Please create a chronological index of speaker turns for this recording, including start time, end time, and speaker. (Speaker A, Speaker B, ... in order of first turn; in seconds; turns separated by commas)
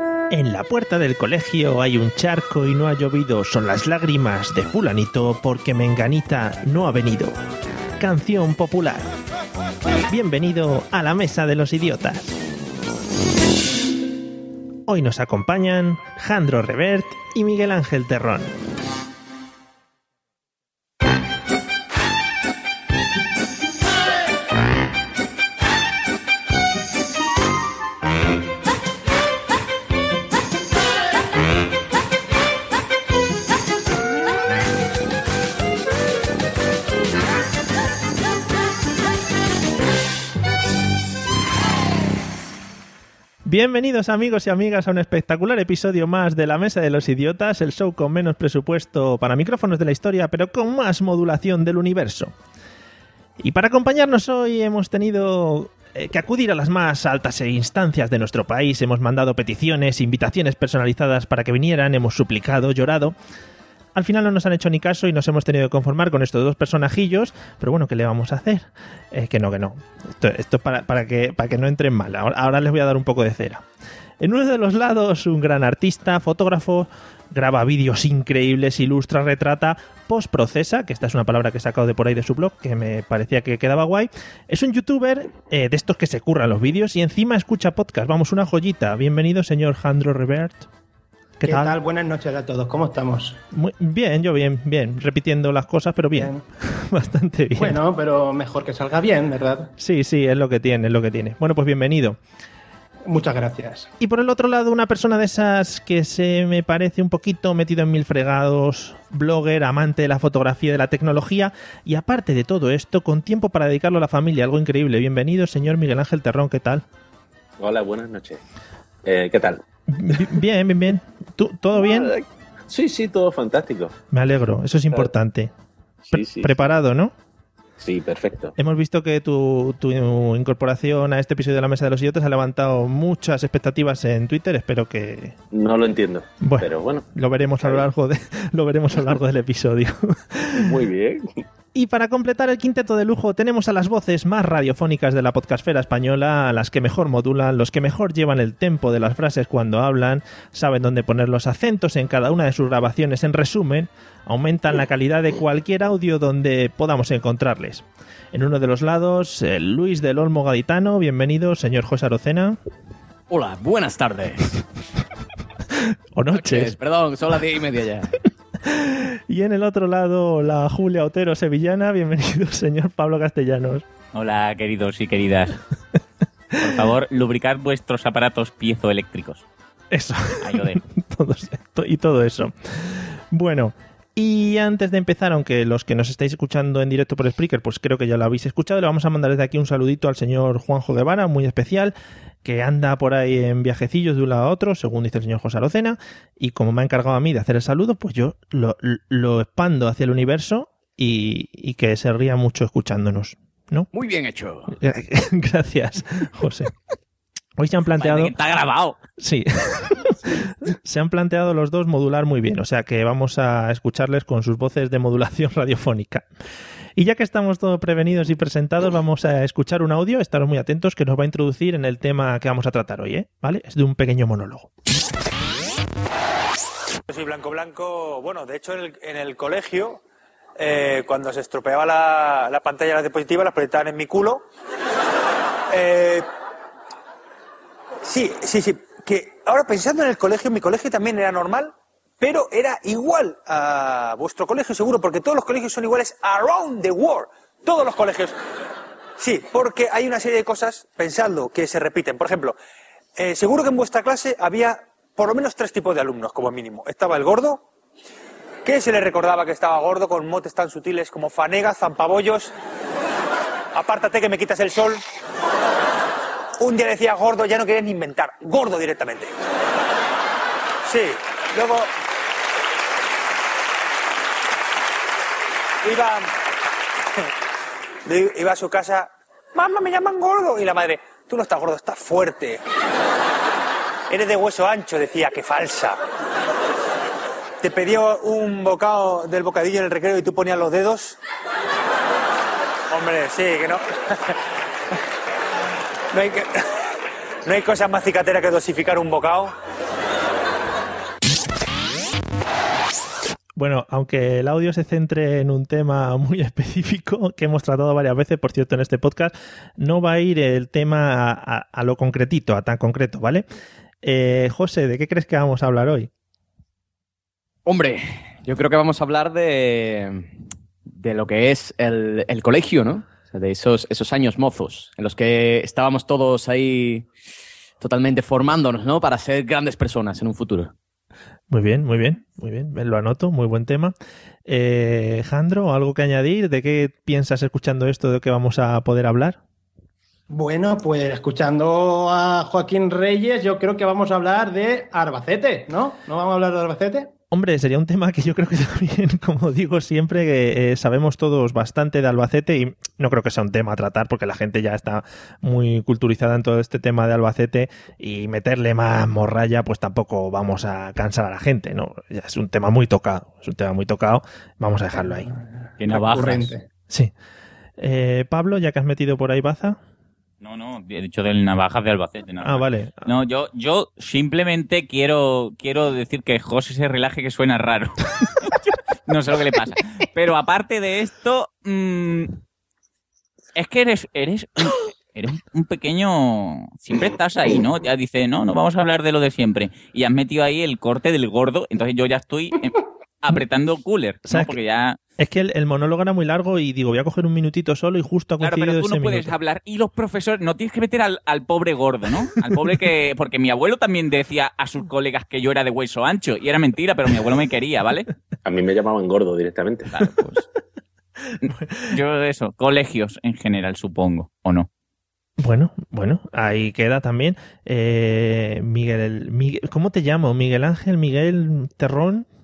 Speaker A: 0.3-7.4, Speaker A: 8.0-9.1, Speaker A: 10.1-12.4, Speaker A: 14.9-18.6, Speaker A: 43.5-52.3, Speaker A: 53.4-63.2, Speaker A: 64.0-73.7, Speaker A: 74.2-90.7, Speaker A: 91.4-91.8, Speaker B: 91.4-93.4, Speaker A: 93.5-97.8, Speaker B: 96.2-96.4, Speaker B: 97.6-99.7, Speaker A: 99.8-102.2, Speaker B: 103.1-103.9, Speaker A: 104.0-116.8, Speaker C: 117.6-118.4, Speaker C: 119.0-119.6, Speaker A: 119.9-122.1, Speaker C: 121.8-123.9, Speaker A: 124.1-125.5, Speaker C: 126.1-126.7, Speaker A: 126.1-127.1, Speaker C: 127.8-128.5, Speaker A: 128.6-135.4, Speaker C: 135.5-137.1, Speaker A: 136.4-140.8, Speaker C: 140.5-141.3, Speaker A: 141.7-162.6, Speaker D: 163.3-164.6, Speaker A: 165.7-166.8, Speaker D: 166.3-168.2, Speaker A: 168.6-173.9, Speaker E: 174.1-175.6, Speaker A: 176.6-176.8, Speaker E: 176.6-179.4, Speaker A: 179.9-203.9, Speaker E: 180.4-180.8, Speaker D: 203.9-204.8, Speaker A: 204.7-206.7, Speaker A: 207.6-208.3, Speaker E: 208.0-209.0, Speaker A: 209.2-210.2, Speaker A: 210.7-216.3, Speaker A: 217.0-224.7, Speaker F: 227.1-230.0, Speaker F: 230.6-234.4, Speaker F: 235.7-236.3, Speaker F: 238.0-248.3, Speaker F: 249.2-252.6, Speaker F: 253.2-257.6, Speaker F: 258.6-262.5, Speaker F: 263.7-265.0, Speaker F: 266.6-269.3, Speaker F: 270.9-271.9, Speaker F: 275.8-276.3, Speaker F: 278.1-282.6, Speaker F: 284.1-286.0, Speaker F: 287.6-291.2, Speaker F: 292.9-293.8, Speaker F: 296.1-296.6, Speaker F: 297.5-299.5, Speaker A: 303.6-313.5, Speaker A: 314.0-316.1, Speaker D: 317.7-320.3, Speaker D: 320.9-327.1, Speaker D: 327.8-330.7, Speaker A: 331.5-333.9, Speaker A: 334.5-339.4, Speaker B: 340.3-347.1, Speaker A: 347.3-365.3, Speaker B: 365.2-366.7, Speaker E: 365.8-366.5, Speaker A: 367.8-369.8, Speaker E: 370.4-382.4, Speaker A: 372.4-373.1, Speaker E: 383.6-395.0, Speaker A: 394.3-394.6, Speaker A: 395.2-399.3, Speaker E: 398.4-408.1, Speaker C: 408.4-409.9, Speaker E: 409.9-410.4, Speaker E: 411.4-414.7, Speaker A: 411.4-411.9, Speaker A: 415.4-422.3